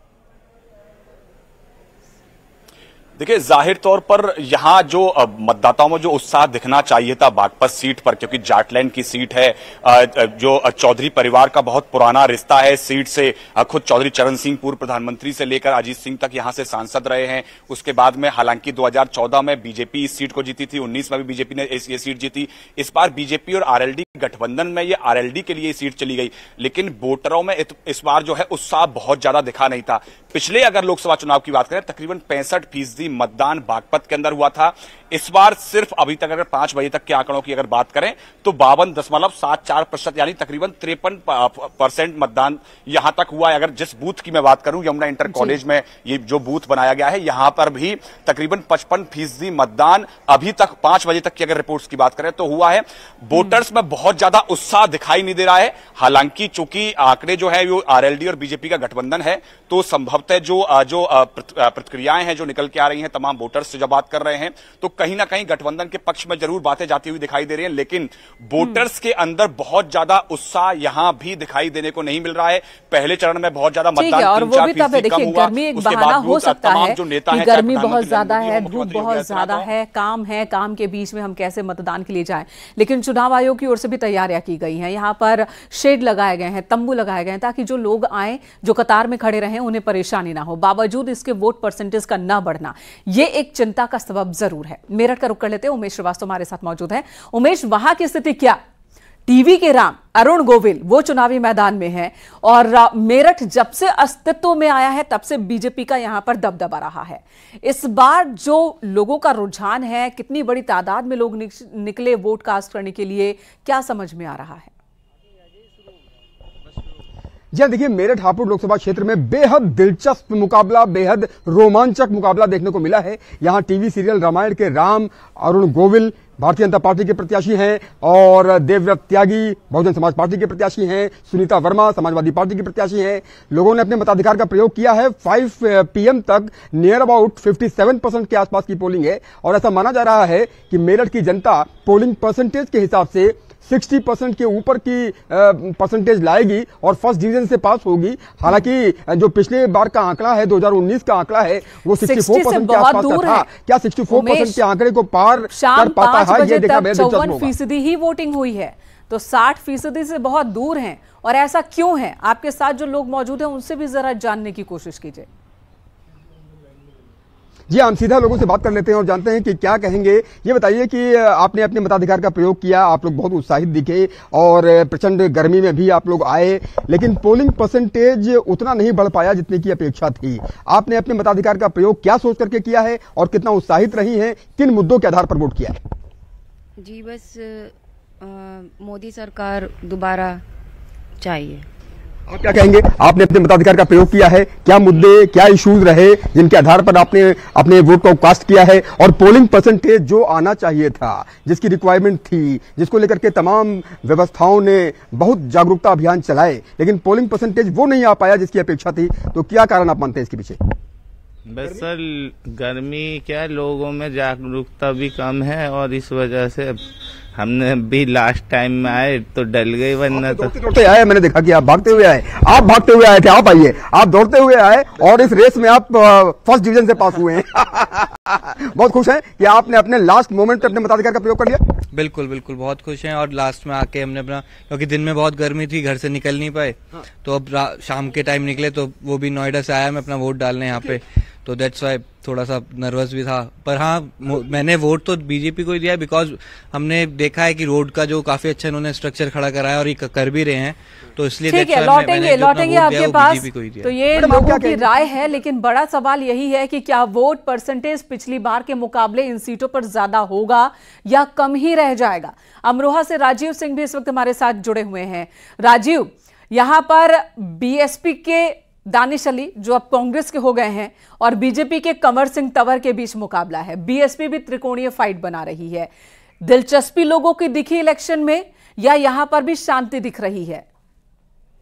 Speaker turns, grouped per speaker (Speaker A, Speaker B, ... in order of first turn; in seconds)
Speaker A: 3.2-79.7
Speaker B: 45.3-45.6, 74.0-98.6, 99.3-114.7, 152.0-153.5, 154.1-154.6, 155.5-165.3, 251.5-275.9, 276.4-280.6
Speaker C: 117.5-157.5, 167.7-185.8, 192.3-210.6, 220.1-231.6, 254.1-254.9
Speaker D: 186.8-190.4, 191.2-191.6
Speaker E: 211.5-216.8, 217.3-220.5
Speaker F: 231.9-253.9